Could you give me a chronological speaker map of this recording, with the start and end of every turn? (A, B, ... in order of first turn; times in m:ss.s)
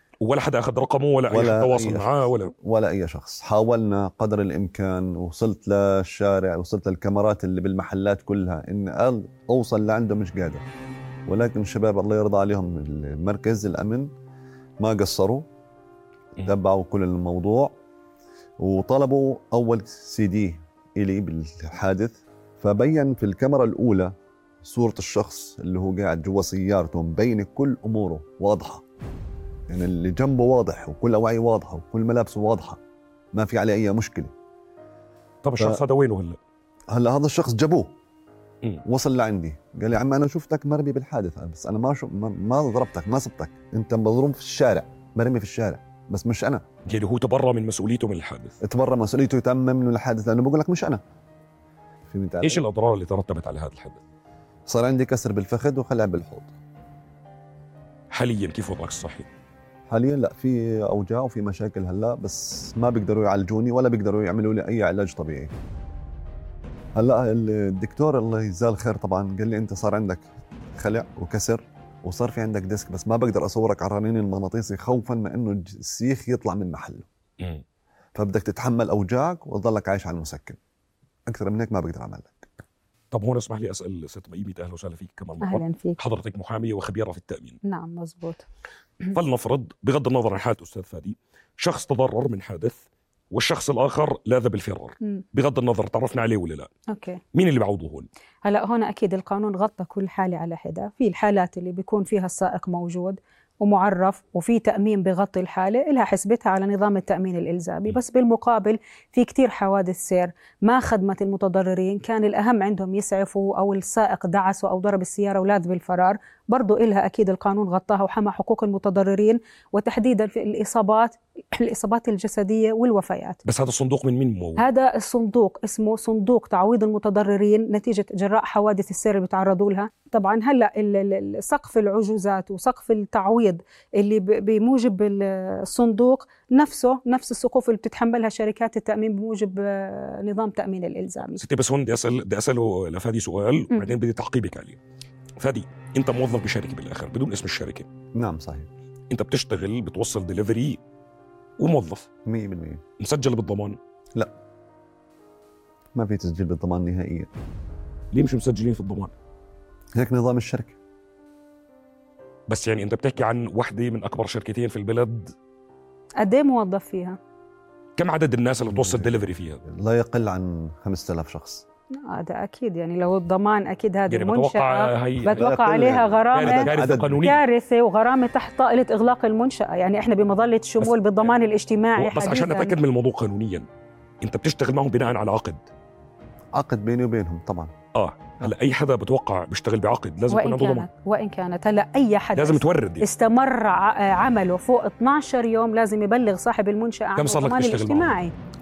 0:00.2-0:02.5 A
0:01.3-0:10.6 B
0:11.3-0:14.1 B
0:14.8-0:15.5 B
0:16.4-0:17.7 B
0:18.6-0:28.8 B
0:29.7-0:32.8 B
0:33.3-0:34.3 B
0:35.4-0:36.4 A
0:36.9-0:37.9 B
0:38.8-0:46.6 B
0:46.9-0:48.6 A
0:48.6-0:51.0 B
0:52.0-0:52.6 B
0:52.4-0:54.0 A
0:54.7-0:56.5 B
0:58.1-0:59.3 A
0:59.9-1:05.5 B
1:06.9-1:17.1 B
1:18.1-1:20.6 B
1:21.3-1:22.5 B
1:23.1-1:27.6 A
1:25.4-1:26.0 C
1:27.6-1:28.4 C
1:29.1-1:36.7 A
1:36.9-1:37.2 C
1:37.3-1:38.1 A
1:38.4-2:03.4 C
2:03.4-2:04.6 A
2:04.6-2:21.4 C
2:21.4-2:24.8 A
2:23.7-2:24.0 C
2:25.4-2:27.9 A
2:28.1-2:28.7 B
2:29.1-2:30.8 A
2:31.6-2:32.1 A
2:32.2-2:32.8 B
2:33.0-2:33.8 A
2:35.9-2:37.3 B
2:38.1-2:39.1 A
2:39.9-2:40.8 B
2:42.5-2:45.3 A
2:46.2-2:47.2 C
2:48.0-2:49.6 A
2:48.6-2:51.6 B
2:52.1-3:02.8 C
2:54.1-2:55.7 A
2:55.4-2:57.2 B
2:56.3-2:57.4 A
3:02.0-3:03.7 A
3:04.2-3:05.6 A
3:06.5-3:07.7 B
3:07.9-3:10.9 A
3:10.3-3:18.3 C
3:12.4-3:13.1 A
3:17.2-3:18.1 A